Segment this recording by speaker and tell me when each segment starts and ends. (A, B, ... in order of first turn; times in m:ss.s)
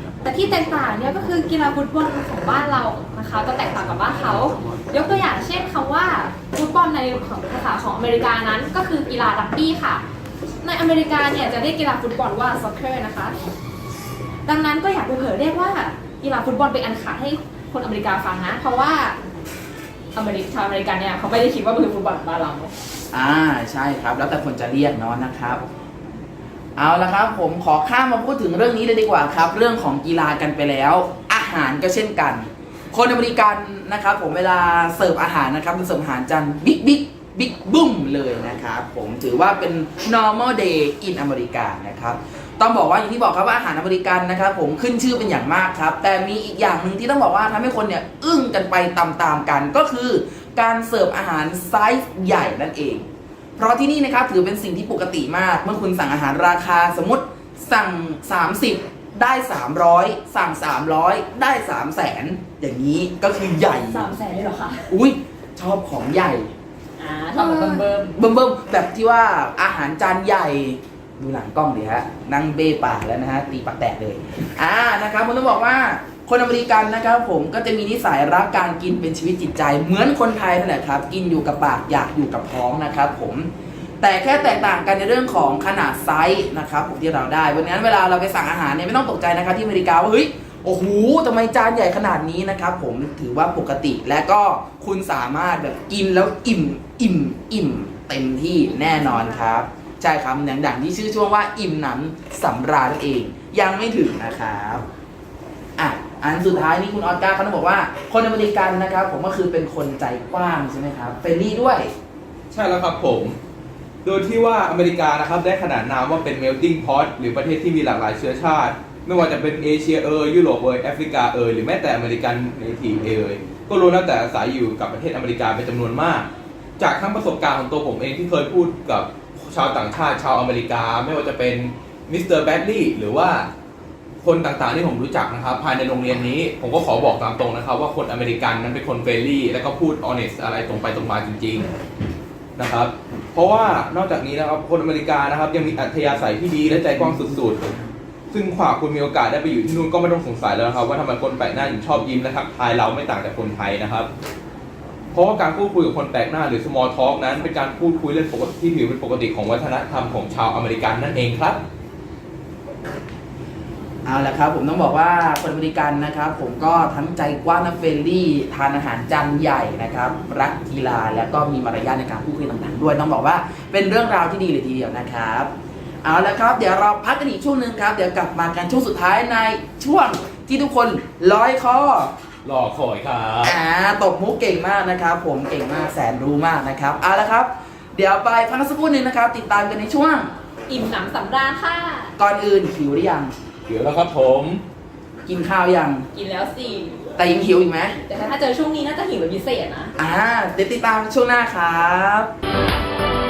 0:00.2-0:10.0 A
0:10.6-0:13.4 A
0:14.5-0:19.2 A
0:20.2-0:22.7 A
0:23.1-0:25.6 B
0:26.8-0:53.1 B
0:53.6-1:04.1 B
1:03.8-1:04.9 A
1:04.9-1:06.5 B
1:07.0-1:08.2 A
1:08.2-1:23.5 B
1:24.0-1:44.8 B
1:45.8-1:51.9 B
1:52.5-1:53.4 C
1:54.0-2:13.5 C
2:14.2-2:21.7 C
2:22.6-2:27.7 C
2:28.3-2:34.1 C
2:35.1-2:41.6 C
2:44.0-2:55.5 B
2:56.0-3:02.1 B
3:02.4-3:03.6 C
3:03.4-3:10.3 B
3:10.7-3:12.1 A
3:12.2-3:13.3 B
3:13.7-3:14.6 C
3:15.3-3:16.1 B
3:16.1-3:17.1 A
3:17.2-3:18.0 B
3:18.0-3:19.9 A
3:20.0-3:22.3 B